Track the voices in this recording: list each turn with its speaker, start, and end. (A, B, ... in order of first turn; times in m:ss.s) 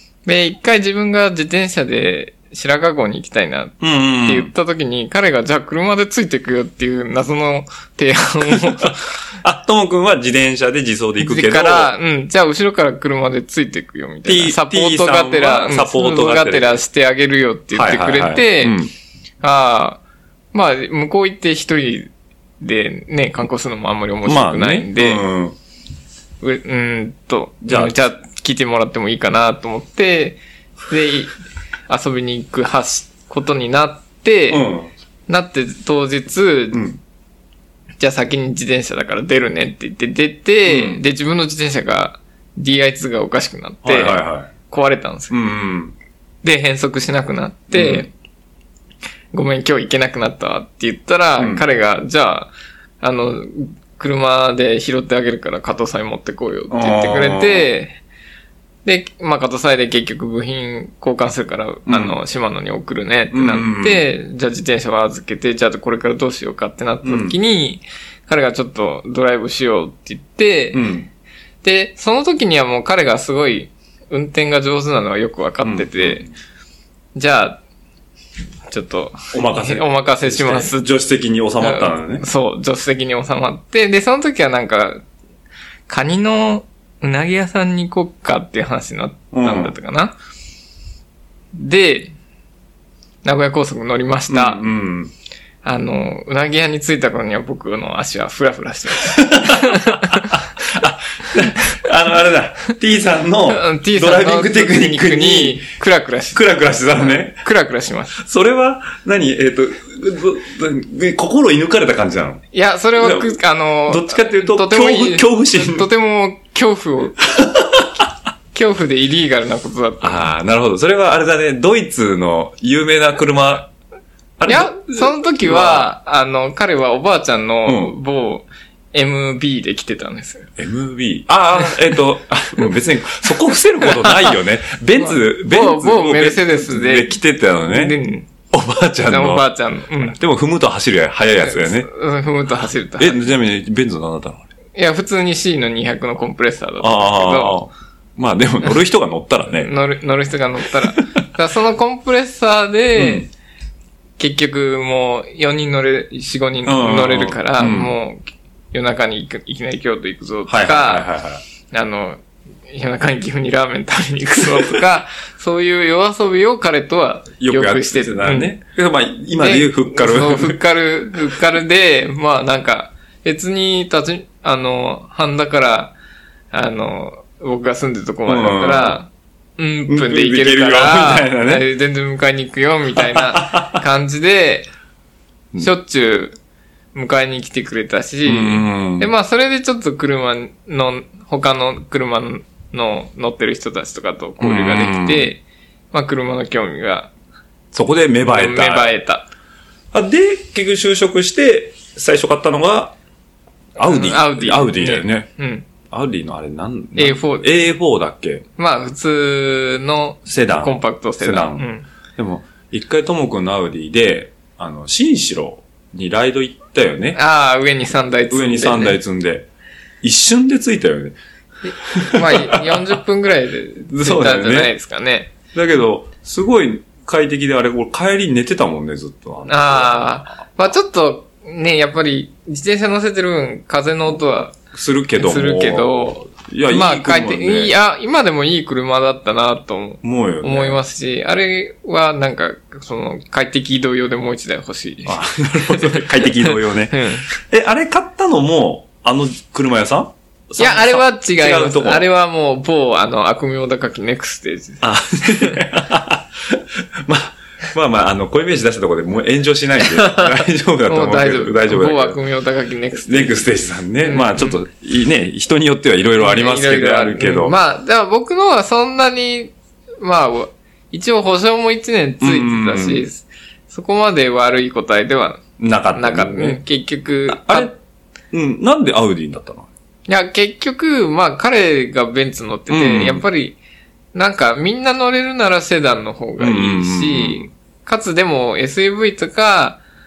0:00.2-0:09.2 A
0:03.8-0:04.5 B
0:08.8-0:11.9 B
0:11.2-0:18.8 A
0:14.2-0:16.8 B
0:17.7-0:18.9 B
0:19.4-0:20.0 A
0:20.5-0:25.2 A
0:24.2-0:25.6 B
0:26.4-0:31.3 A
0:27.6-0:27.9 B
0:31.9-0:34.6 A
0:34.5-0:34.9 B
0:35.3-0:36.8 A
0:36.7-0:37.0 B
0:38.0-0:45.3 A
0:40.6-0:41.0 B
0:43.8-0:44.5 B
0:45.3-0:45.9 B
0:46.4-0:48.1 A
0:47.7-0:48.1 B
0:49.3-0:58.0 A
0:51.4-0:51.6 B
0:56.7-0:57.7 B
0:58.8-1:10.8 A
1:01.9-1:02.2 B
1:03.3-1:04.0 B
1:07.0-1:07.4 B
1:10.7-1:11.1 B
1:11.6-1:16.2 A
1:15.6-1:16.3 B
1:17.1-1:17.6 A
1:18.7-1:20.8 A
1:19.3-1:22.2 B
1:21.6-1:25.0 A
1:25.9-1:30.1 A
1:29.3-1:29.7 B
1:31.5-1:32.1 A
1:33.2-1:34.6 A
1:34.3-1:35.1 B
1:35.6-1:40.4 A
1:39.0-1:45.7 B
1:43.5-1:46.4 A
1:46.3-1:47.4 B
1:47.0-1:48.2 A
1:48.2-1:52.4 B
1:52.5-1:57.2 A
1:53.0-1:55.9 B
1:57.4-1:57.8 B
1:58.5-2:00.3 A
2:00.0-2:03.7 B
2:04.4-2:05.9 B
2:04.4-2:10.5 A
2:07.6-2:07.9 B
2:10.6-2:18.0 B
2:15.0-2:17.1 A
2:17.7-2:18.3 A
2:18.5-2:21.9 B
2:19.0-2:20.2 A
2:21.4-2:23.3 A
2:23.0-2:24.5 B
2:24.7-2:27.6 A
2:26.8-2:29.7 B
2:29.5-2:33.3 A
2:33.0-2:33.3 B
2:34.2-2:41.1 A
2:36.6-2:37.9 B
2:40.5-2:41.4 B
2:41.7-2:48.5 A
2:47.4-2:50.6 B
2:49.4-2:55.9 A
2:56.5-3:04.7 A
2:58.2-2:59.0 B
2:59.9-3:01.6 B
3:03.0-3:03.8 B
3:05.6-3:06.4 A
3:06.9-3:15.4 A
3:08.2-3:09.1 B
3:14.4-3:15.3 B
3:15.9-3:17.1 A
3:17.7-3:19.0 B
3:18.3-3:19.3 A
3:19.9-3:22.9 B
3:23.8-3:25.3 B
3:23.8-3:25.6 A
3:25.9-3:28.4 B
3:27.0-3:27.5 A
3:28.6-3:31.8 A
3:30.2-3:37.2 B
3:37.1-3:39.0 A
3:38.3-3:39.5 B
3:40.0-3:41.2 B
3:41.6-3:45.3 A
3:41.8-3:43.0 B
3:43.9-3:44.7 B
3:45.5-3:50.2 B
3:49.4-3:54.6 A
3:54.7-3:57.7 B
3:55.2-4:07.3 A
4:00.0-4:00.8 B
4:05.0-4:12.1 B
4:10.6-4:15.6 A
4:14.8-4:22.2 B
4:19.9-4:23.5 A
4:23.0-4:27.6 B
4:24.0-4:24.6 A
4:26.2-4:35.4 A
4:32.2-4:33.1 B
4:35.6-4:36.6 B
4:35.9-4:37.7 A
4:37.3-4:37.8 B
4:38.3-4:39.7 B
4:40.1-4:43.6 A
4:42.7-4:43.2 B
4:44.1-4:49.8 A
4:46.4-4:47.5 B